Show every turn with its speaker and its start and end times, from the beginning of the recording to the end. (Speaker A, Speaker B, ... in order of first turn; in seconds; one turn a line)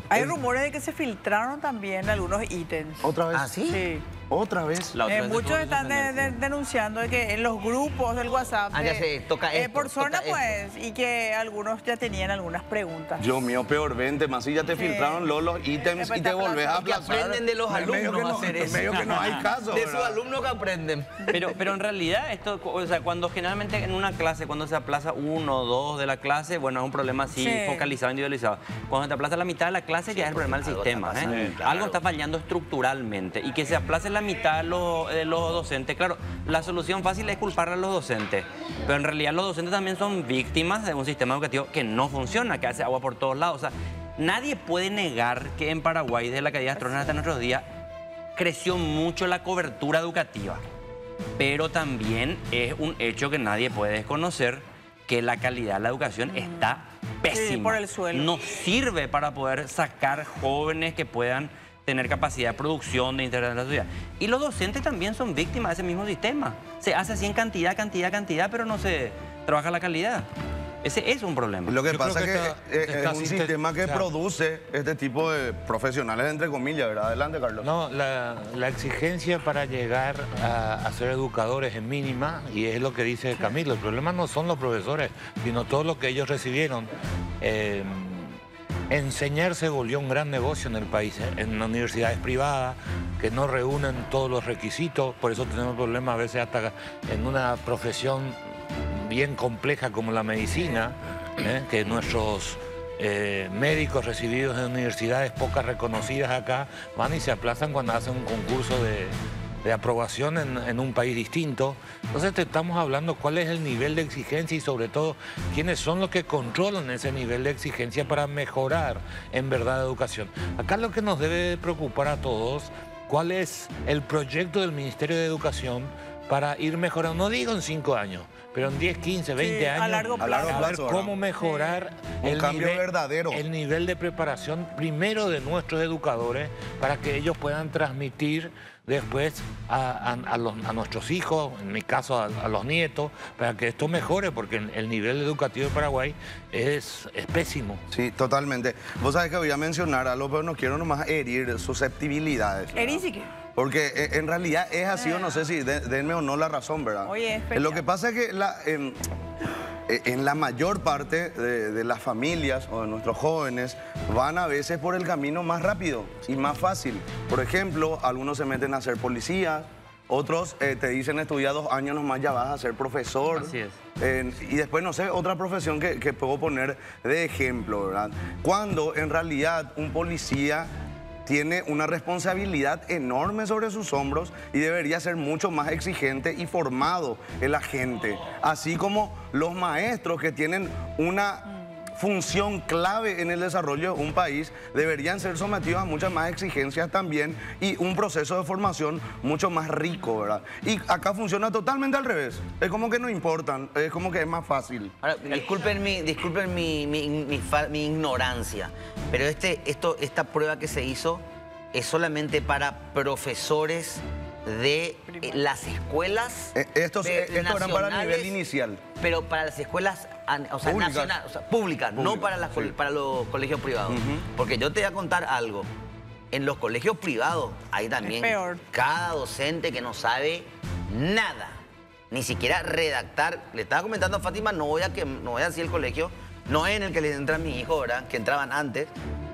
Speaker A: 0.1-3.1
Speaker B: 3.0-3.6
Speaker C: 3.3-3.8
Speaker A: 3.7-4.0
Speaker B: 4.3-5.0
Speaker D: 4.9-6.4
Speaker A: 5.1-13.3
Speaker C: 8.7-10.5
Speaker B: 13.2-20.2
Speaker A: 14.7-15.3
Speaker A: 15.8-16.9
Speaker C: 16.7-21.4
Speaker D: 21.3-47.7
Speaker A: 27.4-27.9
Speaker C: 30.1-32.0
Speaker A: 46.8-47.1
Speaker D: 48.4-50.6
Speaker D: 51.4-70.3
Speaker A: 57.3-58.3
Speaker D: 70.8-71.8
Speaker B: 71.7-77.7
Speaker E: 71.9-74.1
Speaker E: 77.6-86.9
Speaker E: 87.4-88.4
Speaker E: 88.9-147.8
Speaker A: 129.4-130.8
Speaker B: 130.2-131.1
Speaker A: 131.4-131.8
Speaker B: 132.2-133.4
Speaker B: 147.9-159.0
Speaker A: 152.8-153.3
Speaker A: 157.1-157.8
Speaker B: 159.9-180.7
Speaker D: 173.3-173.8
Speaker B: 181.3-204.9
Speaker C: 205.0-218.3
Speaker A: 215.1-215.4
Speaker B: 216.6-218.8
Speaker C: 219.0-225.7
Speaker B: 220.6-221.2
Speaker B: 221.9-222.7
Speaker B: 223.9-224.2
Speaker C: 226.3-231.6
Speaker A: 228.0-228.6
Speaker C: 232.1-238.9